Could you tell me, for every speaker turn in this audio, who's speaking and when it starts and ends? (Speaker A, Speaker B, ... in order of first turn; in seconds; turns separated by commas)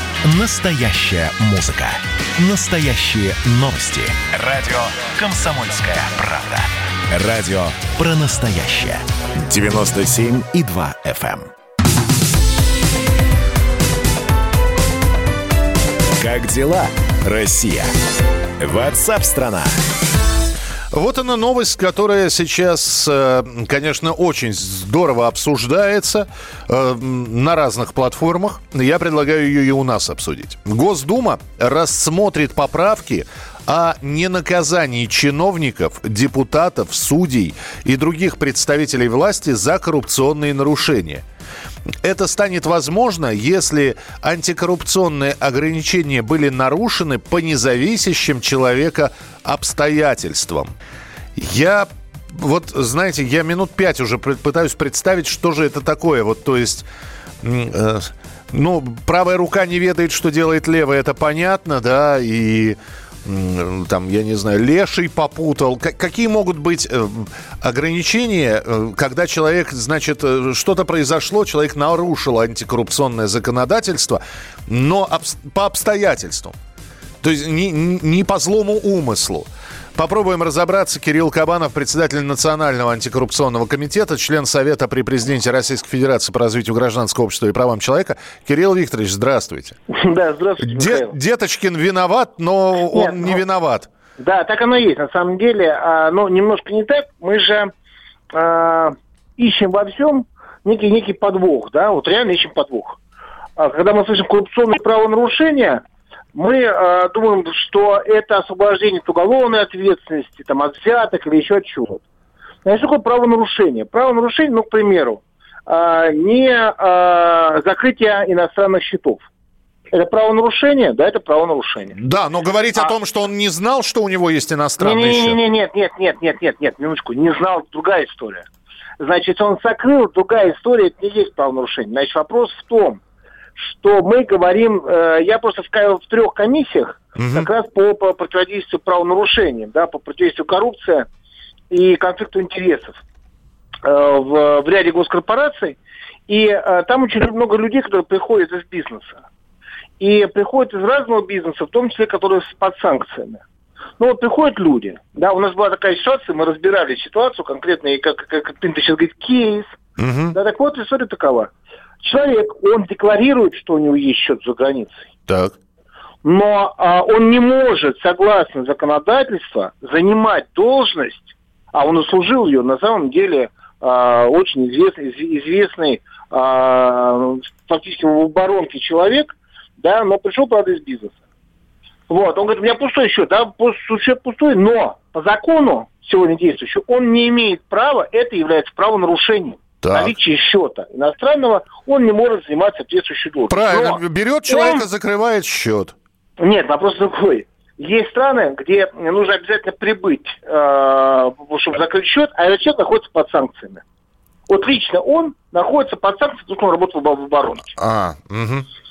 Speaker A: 0.2-11.5, Speaker A: 16.2-17.9, Speaker A: 18.6-19.7, Speaker B: 20.9-41.2, Speaker B: 42.0-50.7, Speaker B: 51.4-56.9, Speaker B: 57.4-76.5, Speaker B: 77.2-89.8, Speaker C: 89.9-91.1, Speaker B: 90.6-93.9, Speaker C: 92.9-93.4, Speaker C: 94.2-97.7, Speaker C: 98.3-103.0, Speaker C: 103.6-105.8, Speaker C: 106.3-112.0, Speaker C: 112.6-119.2, Speaker C: 119.9-122.0, Speaker B: 122.0-125.4, Speaker C: 124.8-128.5, Speaker C: 129.0-133.0, Speaker C: 133.6-141.1, Speaker B: 137.2-137.5, Speaker C: 141.7-143.0, Speaker C: 143.8-145.8, Speaker C: 146.3-149.2, Speaker C: 150.0-153.4, Speaker C: 154.0-159.7, Speaker B: 160.0-160.3, Speaker C: 160.3-165.1, Speaker B: 165.3-165.5, Speaker C: 166.2-181.2, Speaker C: 182.1-194.8, Speaker B: 189.8-190.1, Speaker B: 193.5-195.9, Speaker C: 196.4-203.8, Speaker C: 204.5-207.8, Speaker B: 207.8-208.7